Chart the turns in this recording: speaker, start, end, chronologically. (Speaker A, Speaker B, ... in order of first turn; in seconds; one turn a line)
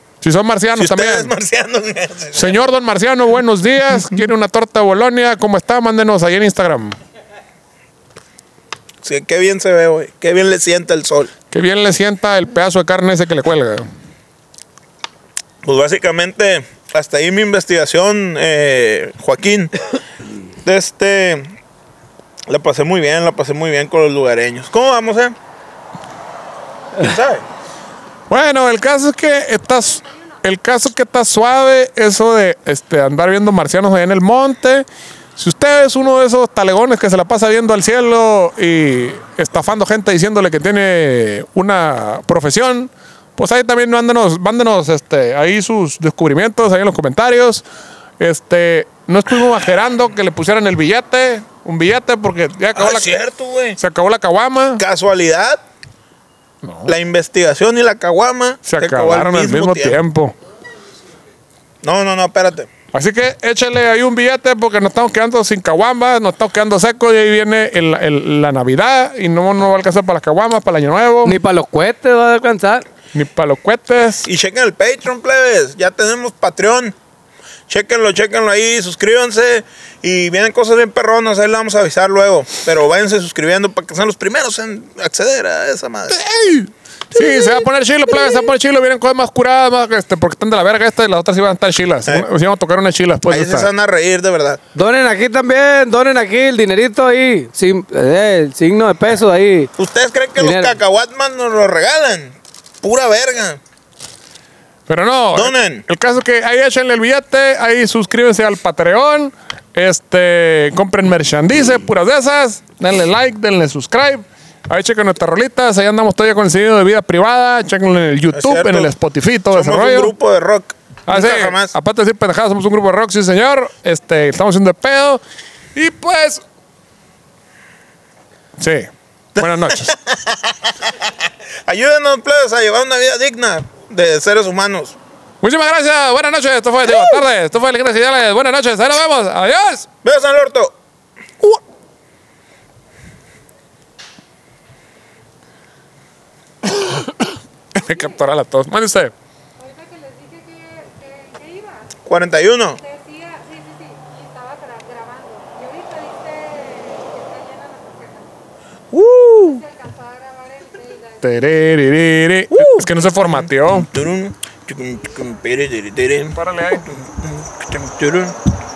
Speaker A: 0.2-1.3
Speaker B: 0.8-2.6
Speaker A: 2.3-7.0
Speaker B: 9.0-11.3
Speaker A: 11.5-13.9
Speaker B: 15.6-19.8
Speaker B: 20.6-21.5
Speaker B: 22.5-25.4
Speaker B: 27.0-27.4
Speaker A: 28.3-47.6
Speaker C: 29.8-30.2
Speaker A: 48.2-53.1
Speaker B: 52.7-53.8
Speaker A: 53.8-54.8
Speaker B: 54.8-55.6
Speaker A: 56.6-56.9
Speaker B: 56.9-60.0
Speaker A: 58.6-60.4
Speaker B: 61.8-62.7
Speaker A: 62.9-71.4
Speaker D: 71.2-72.9
Speaker A: 73.1-74.2
Speaker B: 74.2-77.0
Speaker B: 77.7-86.2
Speaker A: 86.1-93.7
Speaker B: 87.2-87.6
Speaker B: 93.3-94.6
Speaker D: 94.8-99.7
Speaker B: 99.8-103.6
Speaker D: 100.4-100.8
Speaker A: 104.9-120.1
Speaker B: 105.3-105.8
Speaker B: 118.3-118.9
Speaker B: 119.5-121.8
Speaker A: 121.1-125.2
Speaker A: 125.8-126.4
Speaker A: 128.6-129.9
Speaker B: 129.4-131.1
Speaker B: 131.7-135.0
Speaker A: 135.4-139.9
Speaker B: 140.0-140.8
Speaker A: 146.8-149.1
Speaker C: 147.9-148.2
Speaker C: 149.6-152.0
Speaker B: 152.1-152.8
Speaker C: 152.6-158.4
Speaker B: 158.9-159.6
Speaker C: 159.4-161.8
Speaker A: 161.2-163.9
Speaker B: 162.5-168.3
Speaker A: 166.3-166.9